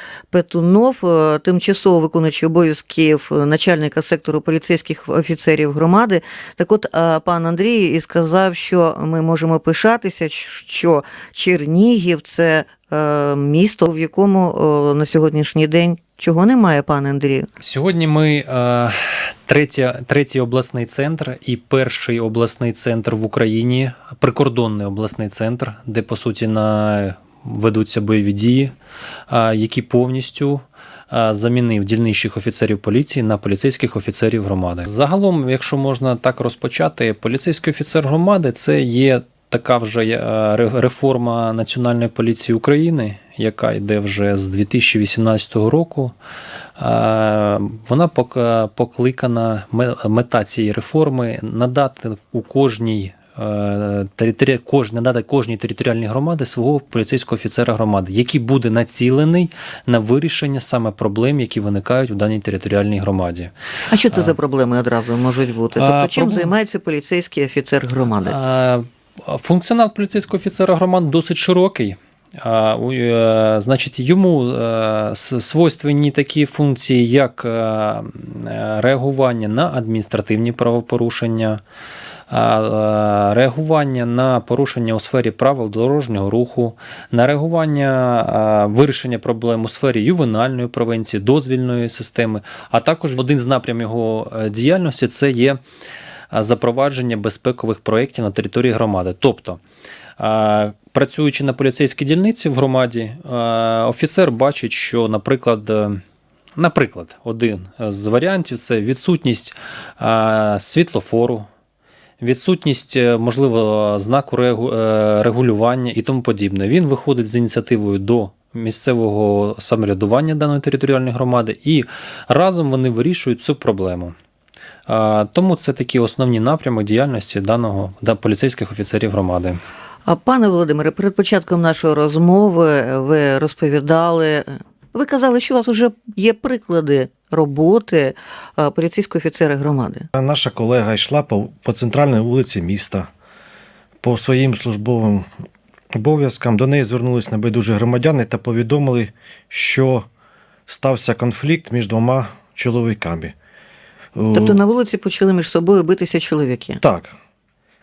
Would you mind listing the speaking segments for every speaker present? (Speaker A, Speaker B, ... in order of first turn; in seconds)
Speaker A: 0.3-17.5, 63.9-68.3, 130.1-140.1, 154.3-156.8
Speaker B: 17.6-28.7, 29.3-46.1, 46.8-63.5, 65.7-66.5, 68.2-81.6, 82.3-95.6, 96.3-99.6, 100.2-106.0, 106.5-111.5, 112.2-124.1, 124.9-129.6
Speaker C: 140.1-143.1, 144.0-145.3, 145.9-150.1, 150.7-153.3, 154.1-154.6, 156.8-157.1